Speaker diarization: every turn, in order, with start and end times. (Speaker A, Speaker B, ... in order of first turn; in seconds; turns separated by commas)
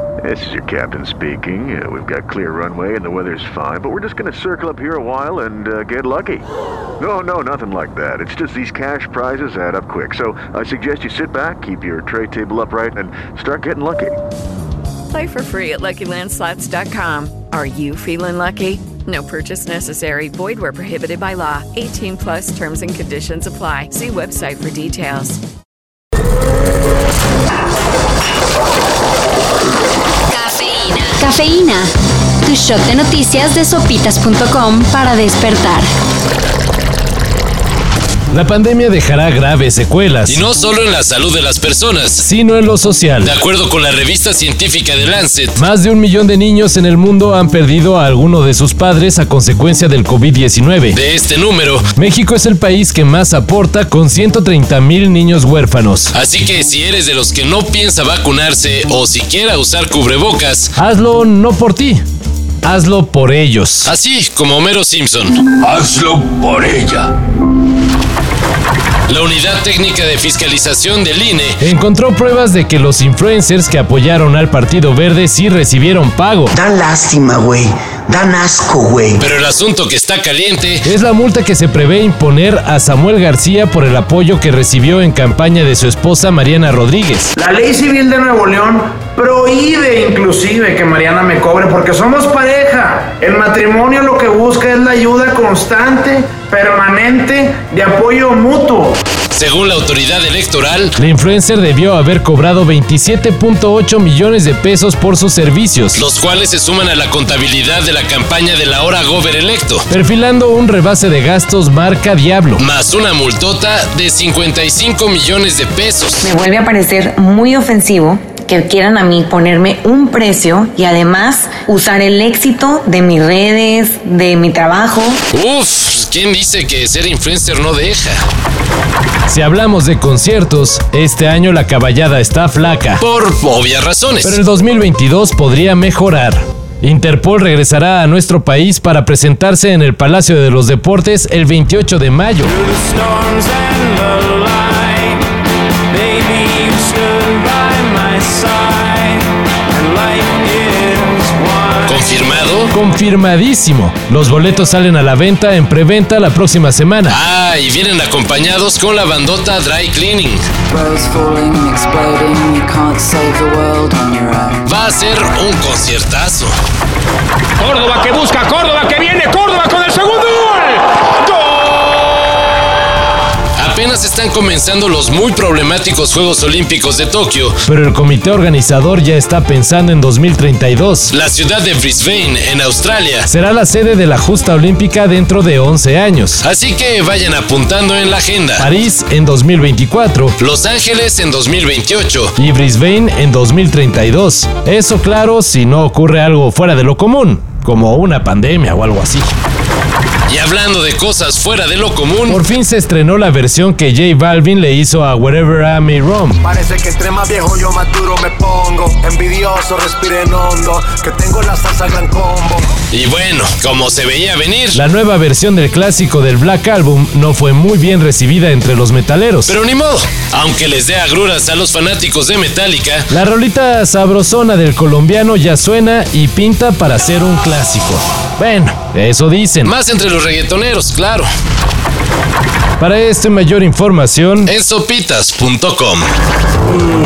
Speaker A: 0.2-6.5, Speaker A: 7.0-14.2, Speaker B: 15.1-25.4, Speaker C: 30.3-31.9, Speaker C: 32.5-35.9, Speaker D: 38.3-40.4, Speaker E: 40.3-42.3, Speaker D: 42.2-43.3, Speaker E: 43.2-45.6, Speaker D: 45.6-51.0, Speaker E: 50.9-51.9, Speaker D: 51.9-56.1, Speaker E: 56.1-60.8, Speaker D: 60.8-62.0, Speaker D: 62.6-63.9, Speaker E: 63.9-67.1, Speaker E: 69.1-71.7, Speaker D: 71.6-76.6, Speaker F: 76.5-79.3, Speaker E: 79.2-80.9, Speaker D: 80.8-87.3, Speaker G: 87.4-99.0, Speaker E: 99.3-100.9, Speaker D: 101.0-106.0, Speaker E: 106.0-109.9, Speaker D: 109.9-112.6, Speaker E: 112.6-116.3, Speaker H: 116.2-125.2, Speaker E: 125.3-128.2, Speaker D: 129.3-133.0, Speaker E: 133.0-134.4, Speaker D: 134.2-142.5, Speaker I: 142.6-145.2, Speaker I: 145.9-152.4, Speaker E: 151.8-152.7, Speaker D: 152.7-157.2, Speaker E: 157.1-160.4, Speaker I: 160.7-164.6, Speaker E: 164.7-166.6, Speaker J: 167.6-170.8, Speaker E: 173.6-177.6, Speaker D: 177.7-181.1, Speaker E: 181.1-183.3, Speaker D: 183.3-186.4, Speaker E: 186.4-188.7, Speaker D: 188.6-190.4, Speaker E: 190.4-192.3, Speaker D: 192.4-199.3, Speaker E: 200.3-202.4, Speaker D: 202.3-206.4, Speaker K: 206.4-212.6, Speaker E: 212.9-214.8, Speaker D: 214.7-219.5, Speaker E: 219.5-223.1, Speaker D: 223.1-229.7, Speaker E: 229.7-231.3, Speaker D: 232.8-234.5, Speaker E: 234.4-236.1